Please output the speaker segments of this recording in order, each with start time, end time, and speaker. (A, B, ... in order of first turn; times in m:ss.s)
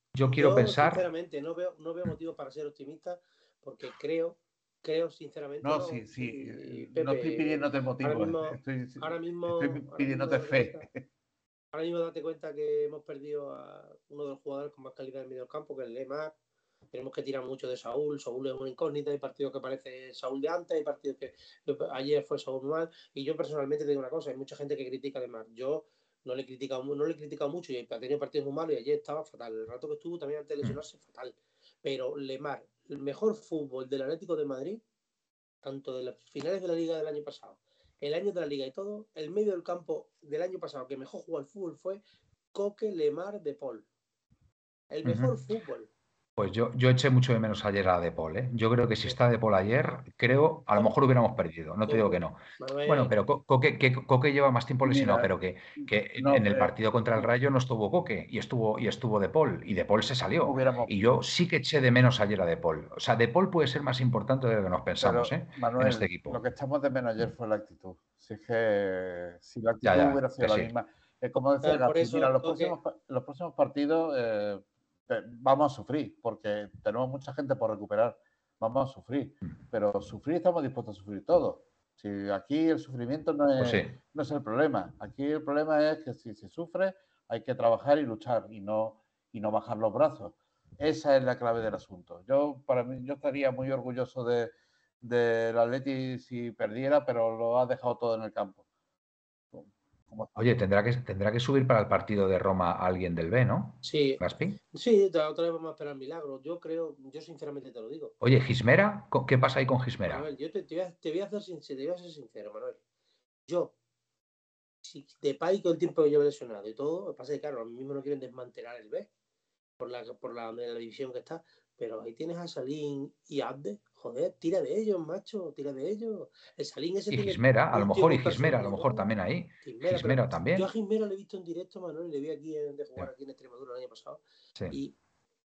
0:00.1-0:01.1 A
0:00.3-0:10.8 B
0:05.6-0:11.0 C
0:11.7-0:16.3 B
0:16.9-0:34.8 B
0:35.6-0:42.0 B
0:42.5-0:43.9 B
0:44.9-0:45.9 B
0:45.0-0:45.3 A
0:46.4-1:06.4 A
0:51.8-0:53.1 B
0:54.8-0:57.3 C
1:00.4-1:00.9 C
1:05.0-1:38.6 C
1:09.8-1:10.7 A
1:11.6-1:12.8 B
1:23.6-1:23.9 A
1:39.5-1:40.3 C
1:40.4-1:44.6 A
1:43.8-1:44.2 B
1:44.7-1:48.1 B
1:48.2-1:50.2 A
1:50.1-1:52.8 B
1:53.5-1:53.7 B
1:54.8-1:59.1 B
1:59.8-2:09.1 B
2:07.1-2:10.7 A
2:09.6-2:14.9 B